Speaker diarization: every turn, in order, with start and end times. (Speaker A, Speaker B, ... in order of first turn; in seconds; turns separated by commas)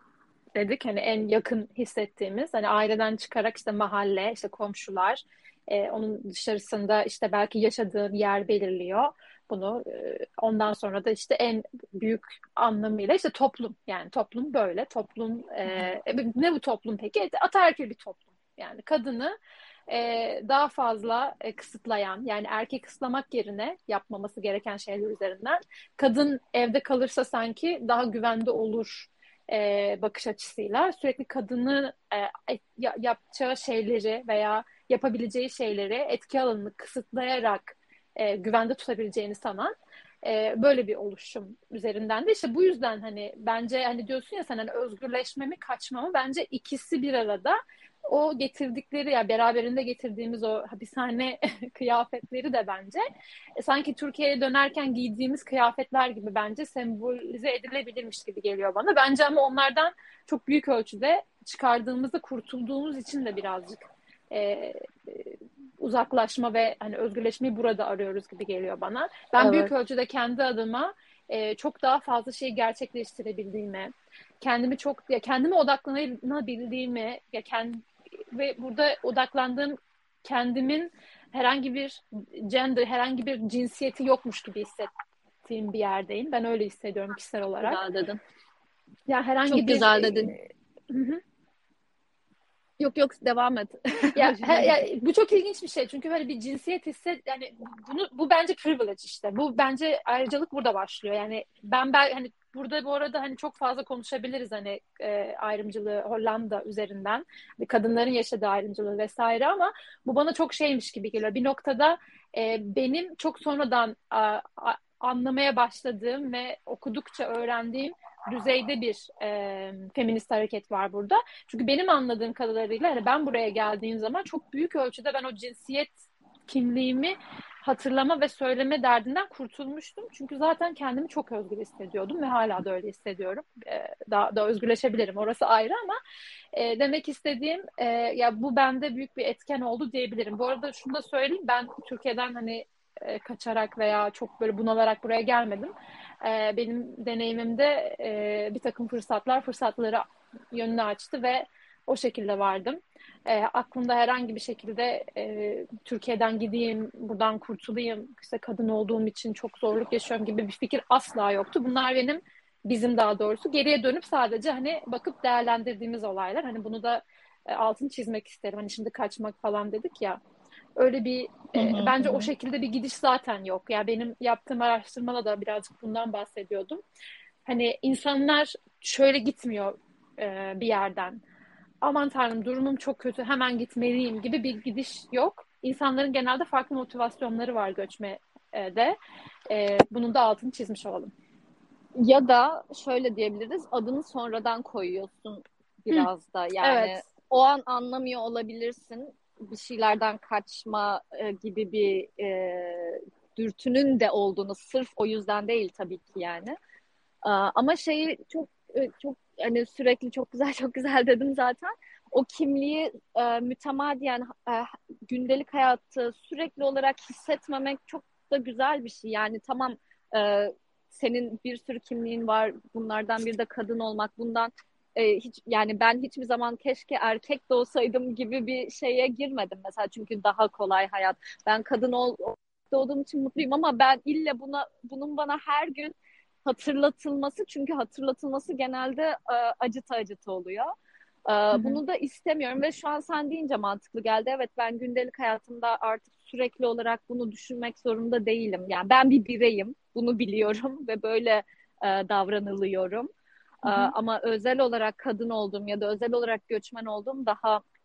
Speaker A: 0.6-19.4, Speaker A: 19.9-53.0, Speaker A: 53.6-84.9, Speaker B: 69.4-69.7, Speaker A: 85.4-87.8, Speaker B: 87.6-88.2, Speaker A: 89.1-91.2, Speaker B: 89.5-90.3, Speaker B: 92.8-94.8, Speaker A: 94.2-125.9, Speaker A: 126.5-136.0, Speaker A: 136.5-170.2, Speaker A: 170.8-176.8, Speaker B: 171.6-172.3, Speaker A: 177.4-181.2, Speaker A: 181.8-189.0, Speaker A: 189.5-191.1, Speaker B: 191.9-206.6, Speaker A: 195.9-197.1, Speaker B: 207.2-235.9, Speaker B: 236.4-240.7, Speaker B: 241.2-253.1, Speaker A: 241.5-241.8, Speaker A: 253.7-253.9, Speaker B: 253.7-257.6